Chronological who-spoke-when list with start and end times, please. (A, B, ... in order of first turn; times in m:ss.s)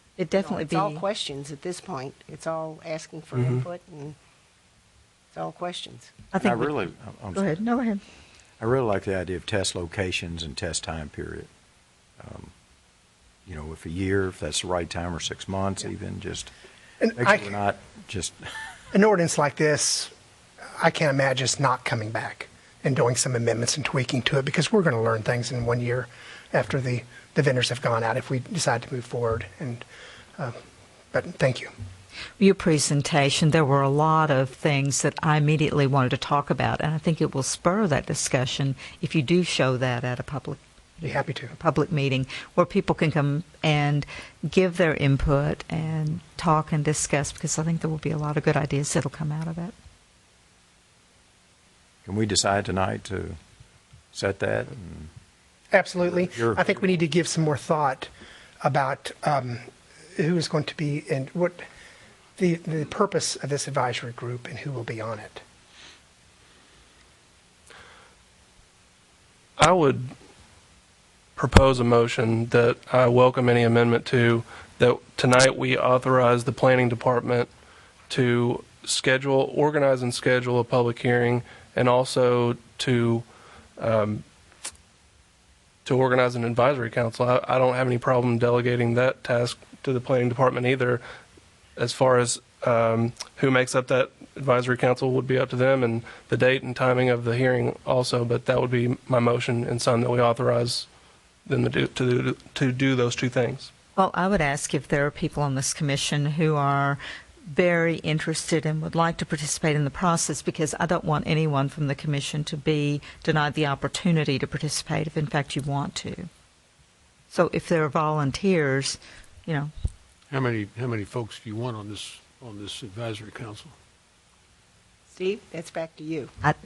0:00.2-0:01.0 A
0:00.3-0:04.2 B
0:03.3-0:03.6 C
0:05.3-0:06.1 B
0:06.3-0:08.0 A
0:06.4-0:07.6 D
0:08.6-0:11.5 D
0:12.2-0:12.5 D
0:13.4-0:16.5 D
0:17.0-0:17.6 E
0:17.2-0:18.4 D
0:18.9-0:20.1 E
0:20.8-0:29.8 E
0:31.1-0:31.7 E
0:32.4-0:49.7 A
0:41.0-0:41.5 E
0:52.0-0:53.4 D
0:54.1-0:55.1 D
0:55.7-0:58.1 E
0:56.0-0:56.6 D
0:58.6-1:01.6 E
1:02.4-1:05.4 E
1:09.6-1:10.1 C
1:11.4-1:17.5 C
1:18.1-1:23.2 C
1:23.8-1:24.2 C
1:25.8-1:31.0 C
1:31.8-1:40.9 C
1:41.4-1:43.7 C
1:44.0-1:56.3 A
1:57.3-1:59.7 A
2:00.3-2:03.7 F
2:05.1-2:06.3 B